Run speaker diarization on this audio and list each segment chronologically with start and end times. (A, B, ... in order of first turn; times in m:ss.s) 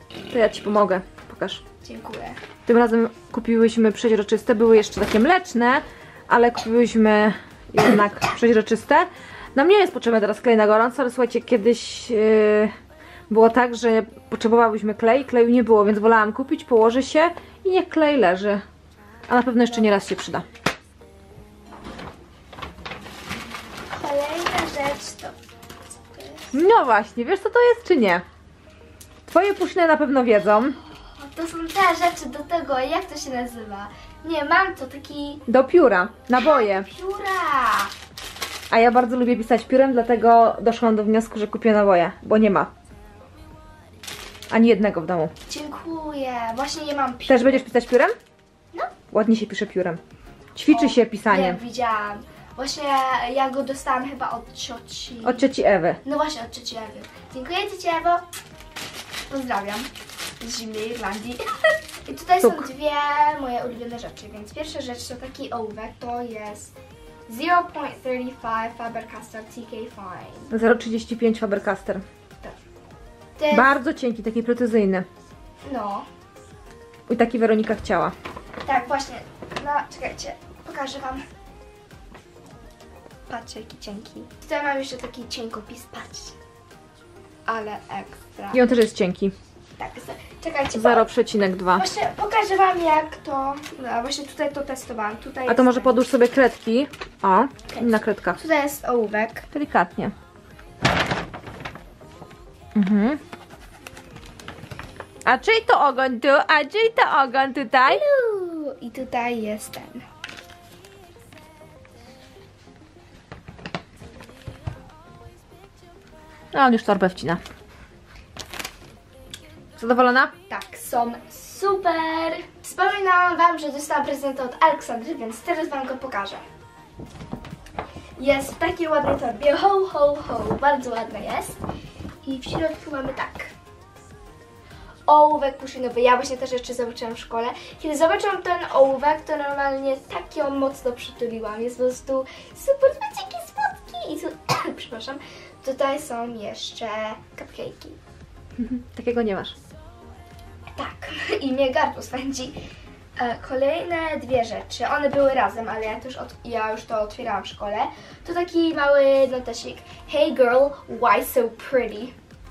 0:00.3-0:01.6 A
0:01.8-0:02.4 B
0:02.7-0:12.7 A
0:13.3-0:18.6 A
0:19.3-0:20.4 A
0:23.9-0:25.3 B
0:26.1-0:26.5 B
0:26.5-0:28.2 A
0:29.3-0:30.8 A
0:30.8-0:35.4 B
0:35.5-0:36.9 A
0:36.4-0:37.9 B
0:38.7-0:42.7 A
0:44.5-0:45.3 A
0:45.5-0:47.6 B
0:47.3-0:48.2 A
0:49.1-0:50.0 A
0:50.6-0:51.6 A
0:50.7-0:55.4 B
0:55.2-0:56.0 A
0:56.0-0:58.2 B
0:59.3-0:59.9 B
1:00.4-1:06.7 B
1:02.4-1:02.7 A
1:07.3-1:10.5 B
1:10.5-1:12.0 A
1:13.4-1:13.7 B
1:13.5-1:15.1 A
1:15.6-1:16.1 B
1:17.1-1:18.1 A
1:18.6-1:21.2 B
1:23.3-1:26.4 B
1:27.5-1:28.6 B
1:28.5-1:29.3 A
1:29.8-1:31.1 B
1:30.7-1:31.8 A
1:31.8-1:36.1 B
1:35.5-1:38.4 A
1:37.7-1:39.5 B
1:39.5-1:40.1 A
1:42.8-1:43.2 A
1:45.3-1:48.0 A
1:47.9-1:50.0 B
1:56.5-1:57.4 A
1:59.8-2:00.3 A
2:00.5-2:06.4 B
2:08.2-2:11.6 B
2:12.2-2:13.5 B
2:15.1-2:28.0 B
2:28.6-2:29.6 A
2:30.7-2:32.6 B
2:33.2-2:42.2 B